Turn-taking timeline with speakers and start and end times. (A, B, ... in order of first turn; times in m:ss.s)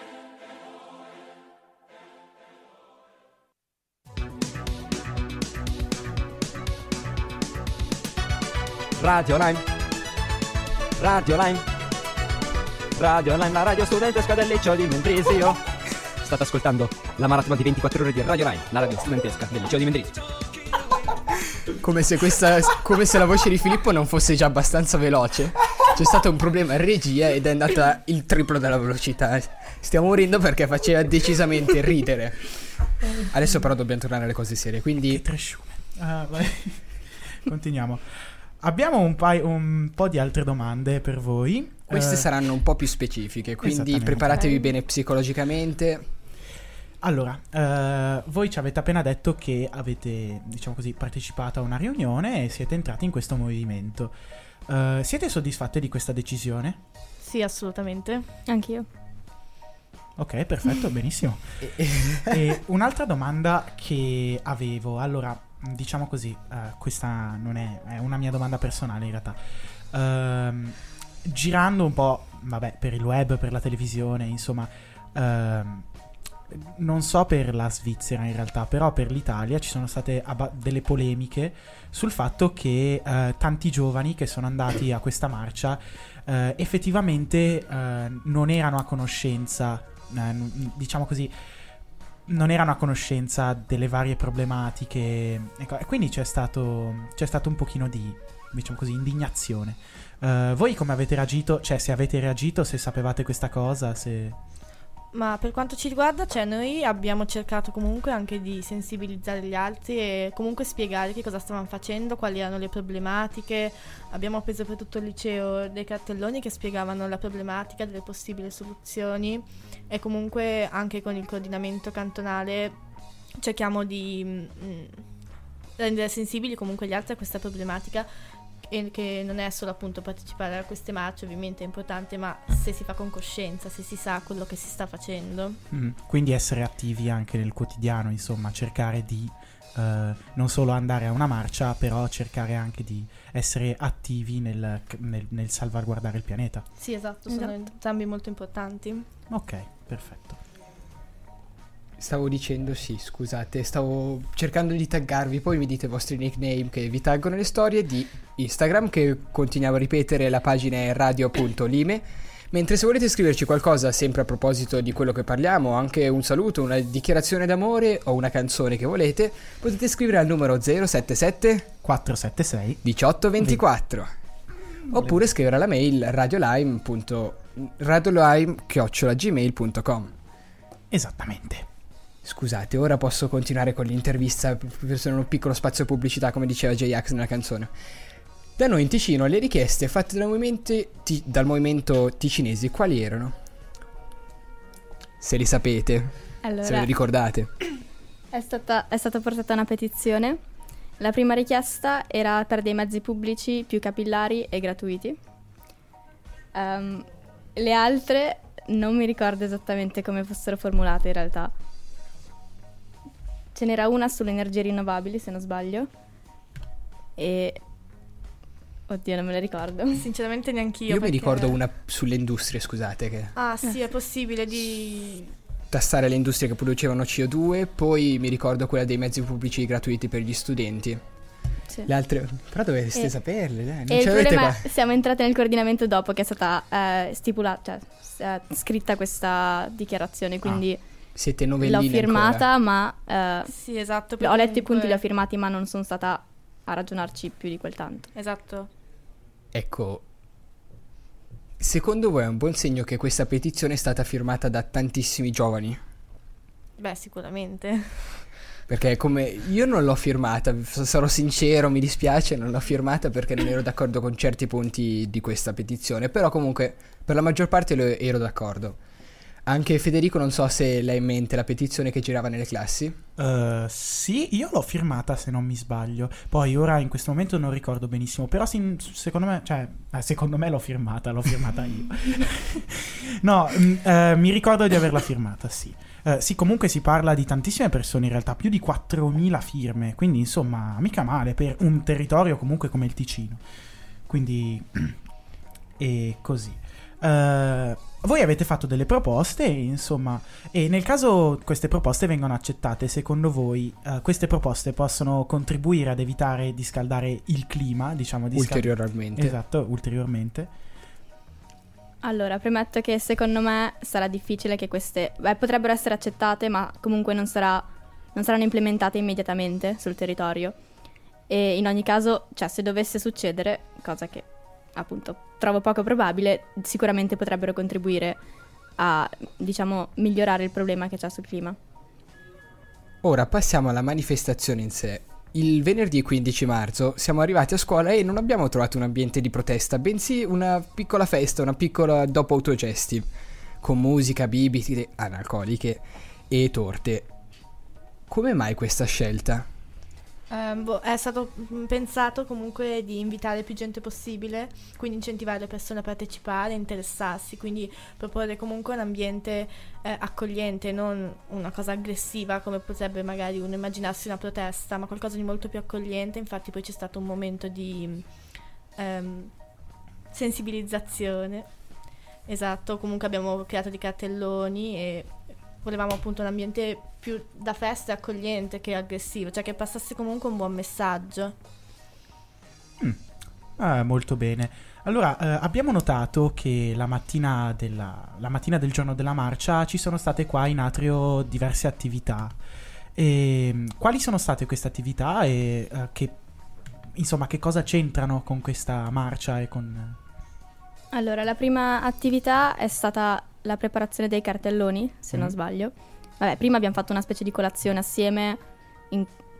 0:09.0-0:09.6 A
0:11.0-0:11.6 A
0:13.0-0:15.6 A
0:16.2-0:20.1 A
0:21.7-0:32.6 B
0:33.2-0:35.2 B
0:35.1-0:38.0 C
0:38.6-0:42.3 C
0:41.9-0:46.0 B
0:43.6-0:44.6 C
0:47.0-0:54.1 C
0:54.7-0:56.8 C
0:57.2-0:58.3 D
0:58.5-0:58.8 E
1:00.2-1:01.7 C
1:01.6-1:02.4 B
1:02.2-1:09.4 C
1:09.9-1:15.9 C
1:16.5-1:31.3 C
1:32.3-1:44.4 C
1:45.1-2:02.8 D
2:03.4-2:05.0 D
2:05.8-2:08.1 D
2:08.7-2:15.6 D
2:15.7-2:26.6 C
2:26.8-2:29.0 D
2:29.3-2:30.4 C
2:32.0-2:51.7 B
2:51.8-2:52.8 C
2:52.8-2:54.1 B
2:54.9-3:00.1 B
2:54.9-2:55.2 C
3:00.9-3:01.7 C
3:02.2-3:07.7 B
3:08.6-3:13.3 B
3:15.2-3:17.5 B
3:16.4-3:16.9 E
3:18.3-3:20.4 E
3:21.0-3:25.2 E
3:26.5-3:31.5 E
3:33.5-3:35.9 E
3:37.2-3:37.6 E
3:38.9-3:40.0 E
3:39.9-3:41.6 D
3:40.9-3:43.3 B
3:43.4-3:45.3 D
3:45.7-3:51.0 B
3:51.9-3:54.6 B
3:53.9-4:00.8 E
4:01.1-4:02.4 B
4:01.6-4:03.5 E
4:03.5-4:05.0 D
4:04.2-4:08.1 E
4:08.1-4:08.7 D
4:09.5-4:10.0 B
4:11.6-4:15.8 B
4:16.8-4:18.2 D
4:18.7-4:28.8 B
4:29.5-4:33.0 B
4:33.2-4:53.4 C
4:54.1-4:55.0 C
4:55.8-5:10.5 C
5:08.3-5:09.4 B
5:12.0-5:20.5 E
5:21.3-5:28.2 E
5:28.8-5:31.6 E
5:33.0-5:43.0 B
5:43.6-5:47.1 B
5:48.1-5:49.5 B
5:50.3-6:08.0 D
6:08.8-6:09.3 D
6:10.1-6:11.5 D
6:12.3-6:21.3 D
6:23.6-6:32.4 C
6:33.0-6:36.2 C
6:36.9-6:40.0 C
6:40.9-6:48.4 E